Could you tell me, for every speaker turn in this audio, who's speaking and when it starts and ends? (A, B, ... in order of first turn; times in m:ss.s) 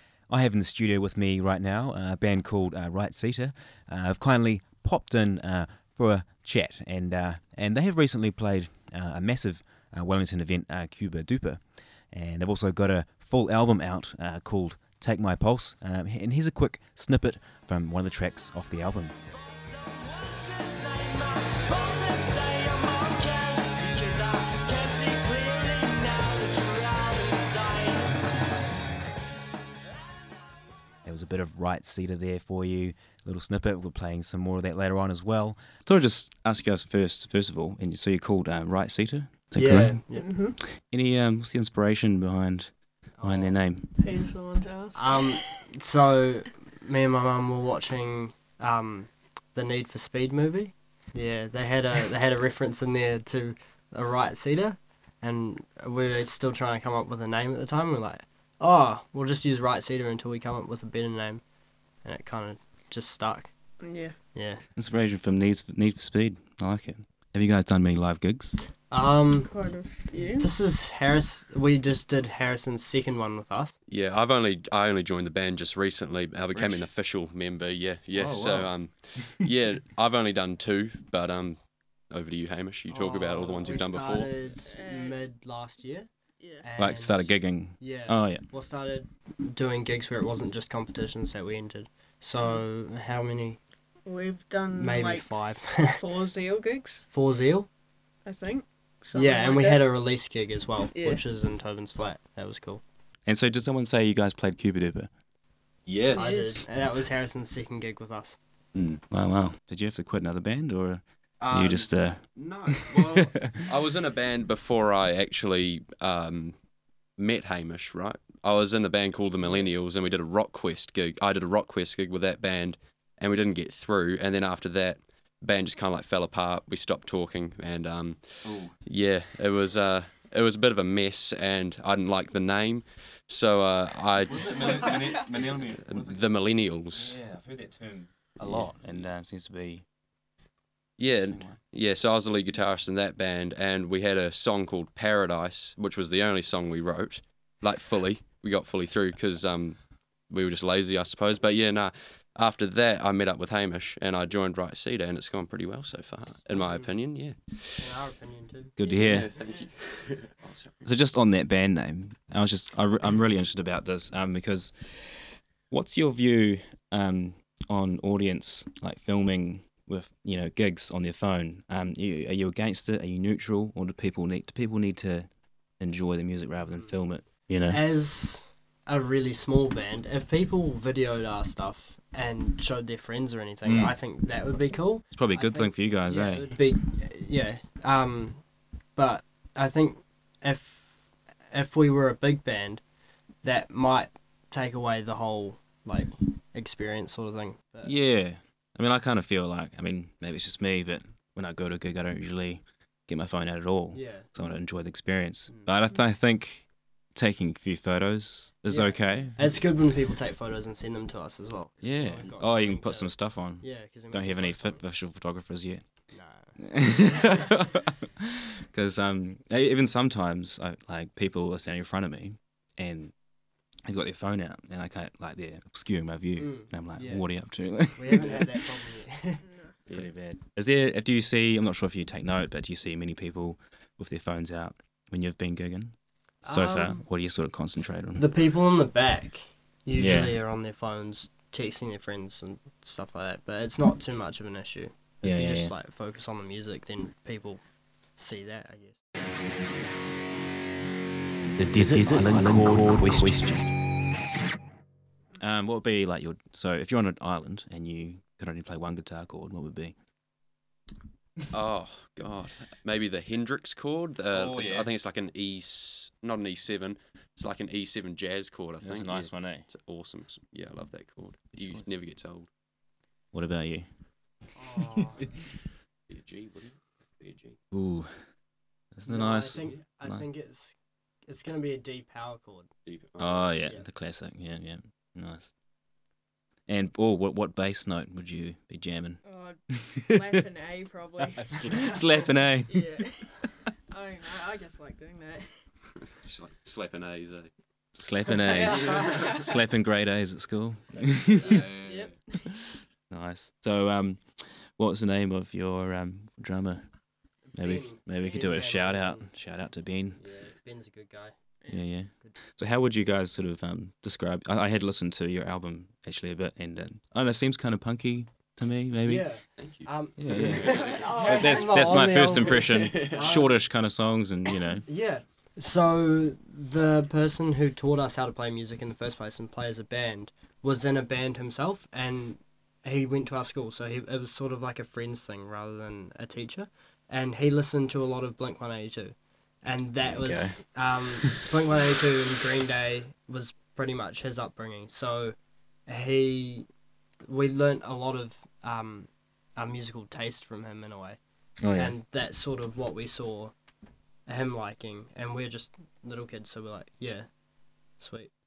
0:00.3-0:11.6 A
0:12.1-0:19.1 A
0:20.6-0:27.7 B
0:24.4-0:24.9 C
0:27.7-0:28.1 C
0:31.0-0:35.6 A
0:35.8-0:40.0 D
0:39.6-0:40.3 E
0:40.2-0:40.6 C
0:40.9-0:43.9 D
0:43.2-0:43.6 E
0:44.0-0:45.6 C
0:44.9-1:01.4 E
1:02.0-1:03.5 E
1:03.8-1:04.1 C
1:04.3-1:04.6 E
1:04.8-1:08.6 D
1:08.9-1:09.5 E
1:09.4-1:10.5 C
1:10.4-1:13.8 E
1:13.9-1:24.3 B
1:16.5-1:16.8 D
1:18.1-1:19.2 D
1:22.9-1:26.1 E
1:24.6-1:25.2 C
1:26.4-1:26.6 C
1:26.6-1:33.6 E
1:26.8-1:28.4 D
1:34.0-1:35.3 C
1:34.7-1:36.0 E
1:35.9-1:37.0 C
1:37.1-1:37.7 E
1:38.2-1:39.8 C
1:39.1-1:42.8 E
1:40.9-1:41.2 C
1:43.2-1:45.1 D
1:45.8-1:46.2 B
1:46.1-1:48.4 E
1:46.1-1:46.6 C
1:48.7-1:53.5 D
1:51.4-1:56.6 B
1:57.2-2:15.0 B
2:08.4-2:08.7 D
2:14.2-2:16.2 D
2:15.8-2:17.2 B
2:16.9-2:19.8 D
2:18.4-2:19.0 B
2:21.0-2:29.8 B
2:21.2-2:21.6 D
2:30.3-2:37.9 B
2:36.5-2:36.9 E
2:37.8-2:39.2 E
2:38.8-2:39.3 D
2:38.9-2:39.7 C
2:38.9-2:40.9 B
2:40.8-2:45.1 D
2:45.7-2:55.3 D
2:55.8-2:57.8 D
2:57.7-3:08.4 E
3:03.6-3:04.0 D
3:05.1-3:06.5 D
3:09.0-3:10.9 E
3:11.5-3:12.8 E
3:13.4-3:17.9 E
3:17.8-3:29.4 D
3:23.9-3:24.3 E
3:28.7-3:34.8 E
3:31.8-3:35.8 D
3:36.1-3:36.5 E
3:36.6-3:43.1 D
3:43.9-3:48.4 D
3:46.4-3:47.2 E
3:47.9-3:49.4 E
3:49.9-3:58.2 D
3:56.4-3:57.0 E
3:58.2-4:07.6 E
4:00.0-4:00.4 D
4:05.2-4:05.7 D
4:08.2-4:09.0 E
4:11.6-4:13.6 A
4:11.7-4:13.4 D
4:15.4-4:19.9 D
4:21.5-4:32.5 B
4:24.3-4:24.9 D
4:28.8-4:29.6 D
4:33.3-4:33.9 D
4:34.6-4:35.3 E
4:36.1-4:37.6 B
4:37.7-4:38.1 D
4:38.9-4:40.2 D
4:39.0-4:40.7 E
4:41.3-4:42.7 E
4:42.8-4:43.5 B
4:43.2-4:45.5 D
4:46.7-4:49.2 D
4:49.2-4:51.8 C
4:51.5-4:52.8 D
4:52.7-4:55.5 C
4:56.2-4:57.5 B
4:57.9-5:01.6 D
4:58.5-4:59.5 C
4:58.8-4:59.2 B
5:00.9-5:01.6 E
5:01.4-5:02.1 B
5:01.5-5:02.6 C
5:03.1-5:06.8 D
5:07.5-5:09.2 E
5:07.6-5:10.2 D
5:10.2-5:11.3 E
5:11.7-5:19.3 D
5:19.0-5:23.5 E
5:19.6-5:21.2 B
5:20.2-5:24.8 D
5:21.0-5:21.8 C
5:22.4-5:23.3 B
5:24.8-5:45.4 E
5:40.0-5:40.6 D
5:45.9-5:46.7 E
5:47.2-5:51.2 E
5:51.6-5:51.9 D
5:51.7-5:53.5 E
5:54.3-5:57.3 E
5:58.0-5:58.3 E